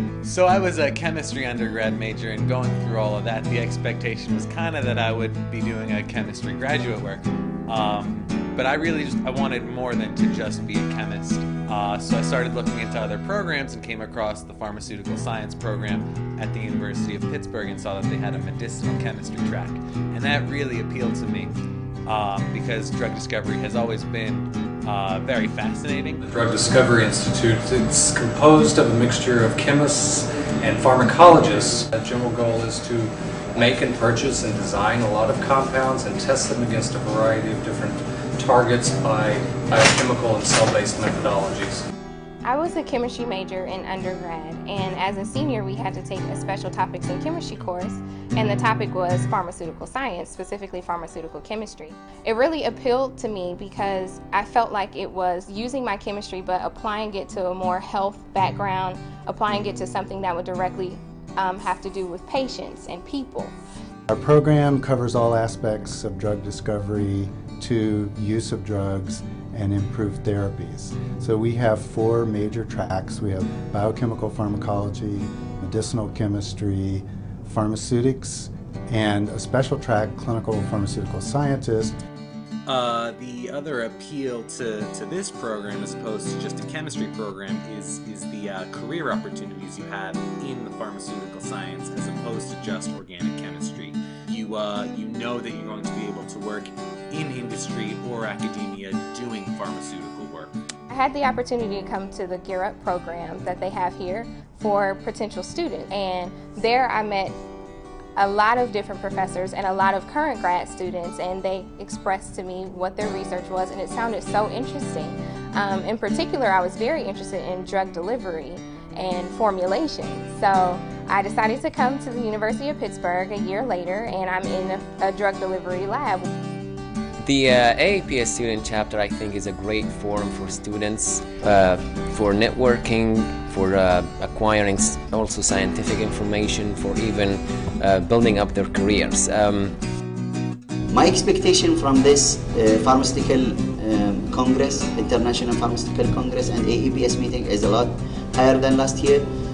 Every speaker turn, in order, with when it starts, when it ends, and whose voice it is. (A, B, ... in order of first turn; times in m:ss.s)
0:00.2-0:21.5 A
0:22.1-0:26.2 A
0:26.2-0:41.8 B
0:42.4-1:03.6 C
1:04.1-1:22.0 D
1:22.7-1:40.5 A
1:40.9-1:47.3 C
1:48.2-2:06.3 C
2:07.2-2:19.7 E
2:20.9-2:29.2 F